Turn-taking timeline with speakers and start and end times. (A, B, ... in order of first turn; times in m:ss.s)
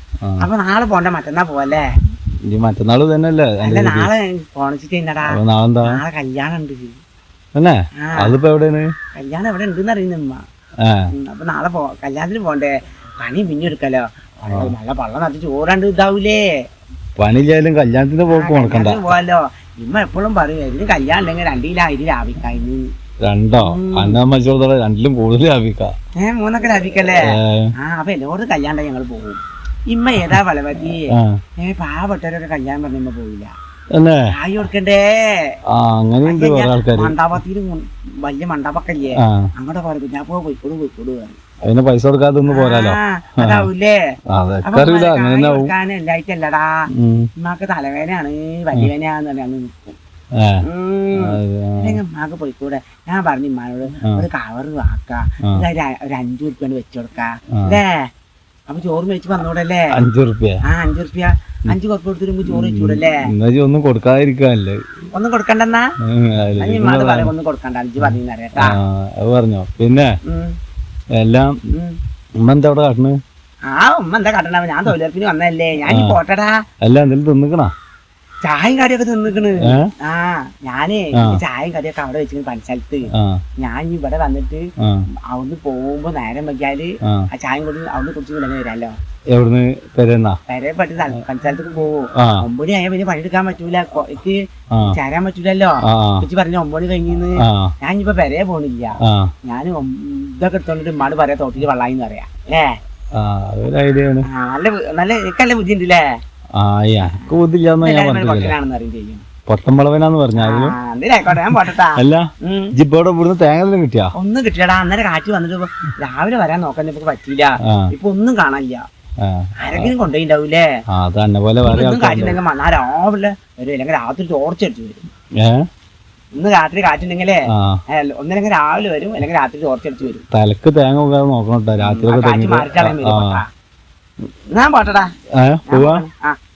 0:00.4-0:01.8 A
0:02.5-0:04.1 B
0:03.6-0:06.9 A
0:05.3-0:06.0 B
0:07.5-0:08.9 B
0:08.0-0:08.4 A
0:09.1-0:10.4 A
0:11.1-0:16.4 A
0:17.2-0:19.1 B
0:18.3-0:22.8 A
0:23.2-0:25.9 B
0:23.6-0:24.2 A
0:26.2-0:31.1 A
0:27.3-0:27.7 B
0:31.1-0:31.4 B
0:31.6-0:33.5 A
0:33.9-0:34.2 B
0:34.3-0:35.6 A
0:35.7-0:37.1 B
0:36.2-0:41.4 A
0:39.2-0:39.5 B
0:41.6-0:43.7 B
0:42.5-0:43.9 A
0:44.3-0:45.7 B
0:44.6-0:46.7 A
0:47.0-0:47.3 B
0:47.4-0:49.9 A
0:50.6-0:58.1 A
0:51.2-0:52.0 B
0:58.7-0:59.9 A
0:59.9-1:00.6 B
1:00.6-1:03.2 A
1:02.5-1:04.8 B
1:05.1-1:05.9 A
1:06.0-1:07.3 B
1:06.6-1:08.8 A
1:08.0-1:10.1 B
1:10.2-1:10.5 A
1:11.2-1:11.6 B
1:12.4-1:13.2 B
1:13.7-1:16.6 A
1:15.9-1:16.2 B
1:16.8-1:17.7 B
1:18.4-1:23.1 A
1:19.6-1:19.9 B
1:21.1-1:21.4 B
1:23.1-1:23.4 B
1:23.6-1:24.7 A
1:24.8-1:25.0 B
1:25.3-1:28.9 A
1:29.3-1:30.4 B
1:30.5-1:42.7 A
1:32.2-1:32.4 B
1:35.8-1:36.2 B
1:37.4-1:37.7 B
1:39.0-1:39.3 B
1:43.2-1:44.2 B
1:44.2-1:46.0 A
1:46.6-1:48.5 B
1:47.0-1:49.2 A
1:49.5-1:50.7 B
1:50.4-1:52.7 A
1:52.0-1:54.1 B
1:54.2-1:58.8 A
1:57.7-1:57.9 B
1:59.2-1:59.9 B
1:59.6-2:00.6 A
2:00.9-2:02.4 B
2:01.6-2:05.0 A
2:05.4-2:05.6 B
2:06.4-2:10.2 A
2:07.5-2:07.8 B
2:10.3-2:13.4 B
2:11.8-2:13.4 A
2:14.5-2:15.1 A
2:15.4-2:16.0 B
2:15.7-2:16.4 A